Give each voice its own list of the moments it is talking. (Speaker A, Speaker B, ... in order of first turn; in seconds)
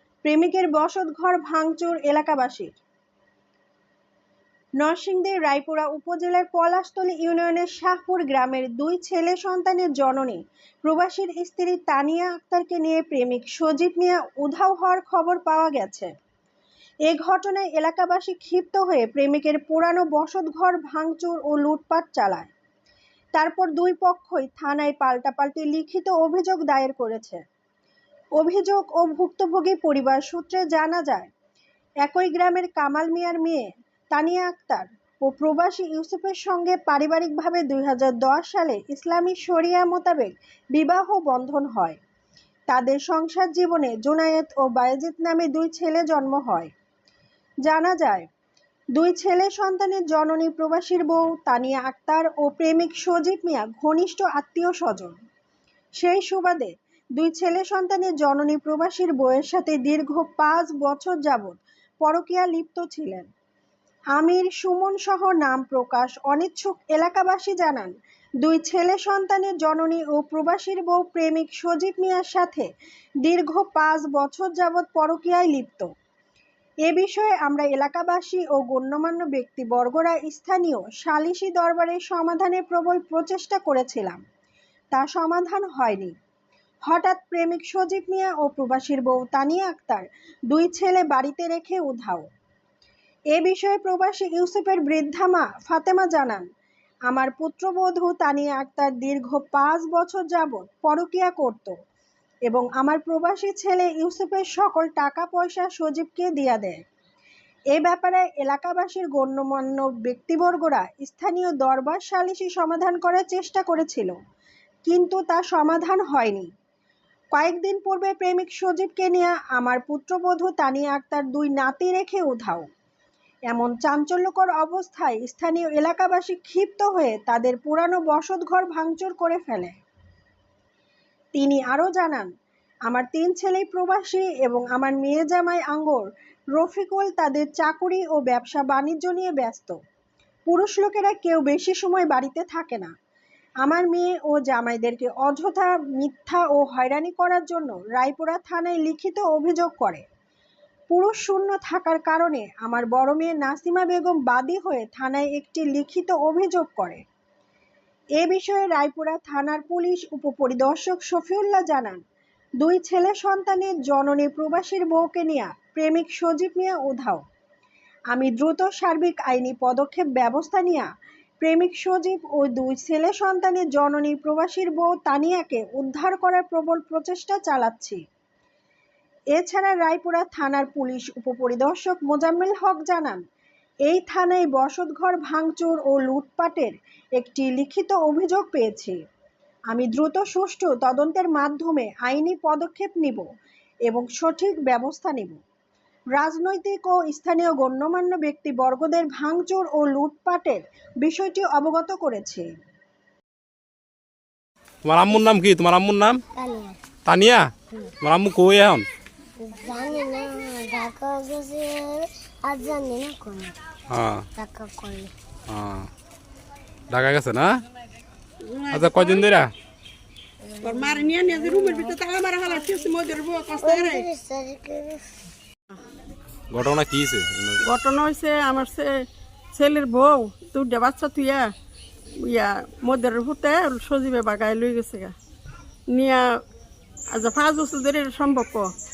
Speaker A: 0.2-2.8, 4.8-16.1, 17.1-22.5, 23.3-27.4, 28.4-31.3, 32.0-42.0, 42.7-46.7, 47.6-48.3, 49.0-55.2, 56.0-63.3, 64.1-67.9, 68.4-72.7, 73.2-75.9, 76.8-84.2, 84.9-86.1, 86.9-92.3, 93.3-96.5, 97.1-101.7, 102.5-106.8, 107.7-114.1, 114.9-116.5, 117.3-122.7, 123.5-129.8, 131.3-132.3, 132.9-139.8, 140.5-142.9, 143.6-150.0, 150.9-157.0, 158.2-162.0, 162.6-167.2, 168.1-170.9, 171.4-178.0, 179.3-183.2, 183.9-189.0, 189.7-193.3, 193.9-195.4, 196.1-202.5
Speaker B: 204.8-206.2, 207.1-208.9, 213.9-214.3, 215.5-215.9, 216.9-217.6, 218.7-219.5, 226.5-227.6
Speaker C: 206.3-206.8, 209.4-213.6, 214.4-215.1, 220.5-221.0, 223.6-225.1
Speaker D: 218.4-219.3, 220.6-224.1, 227.7-228.9, 229.5-231.5, 232.2-235.1, 235.9-236.2, 237.1-238.7